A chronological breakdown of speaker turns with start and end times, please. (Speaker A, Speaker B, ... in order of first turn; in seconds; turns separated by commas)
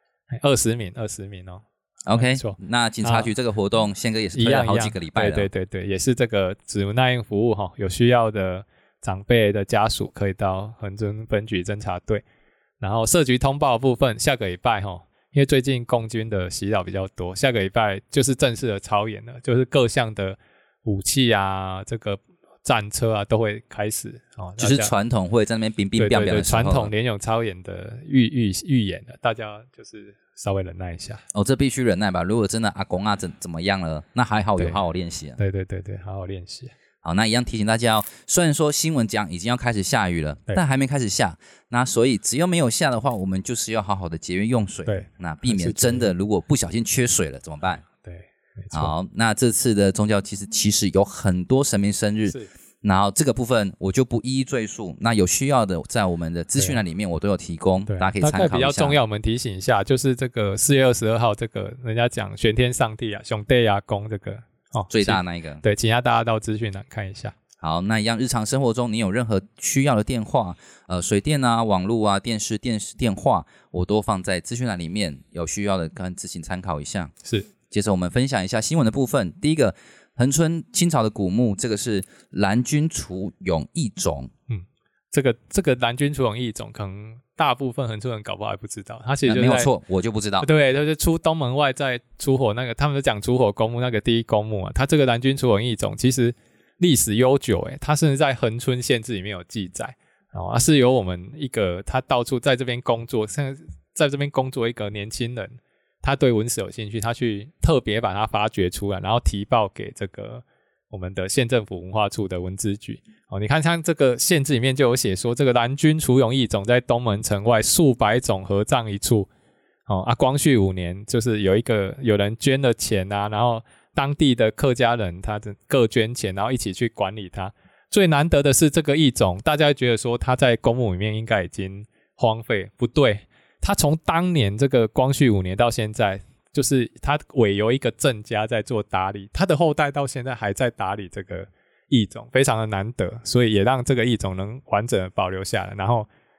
Speaker A: 0.3-3.3, Speaker B: 2.1-5.5, Speaker A: 4.3-12.2, Speaker A: 12.8-24.9, Speaker B: 24.6-26.9, Speaker A: 26.0-31.2, Speaker B: 31.3-35.4, Speaker A: 35.4-36.7, Speaker B: 37.0-47.8, Speaker A: 44.9-46.1, Speaker A: 48.0-48.9, Speaker B: 48.7-59.0, Speaker A: 57.9-67.3, Speaker B: 64.9-65.6, Speaker B: 67.6-77.1, Speaker B: 77.7-84.3, Speaker A: 84.5-89.7, Speaker B: 89.2-90.5, Speaker A: 90.4-119.3, Speaker A: 119.9-146.1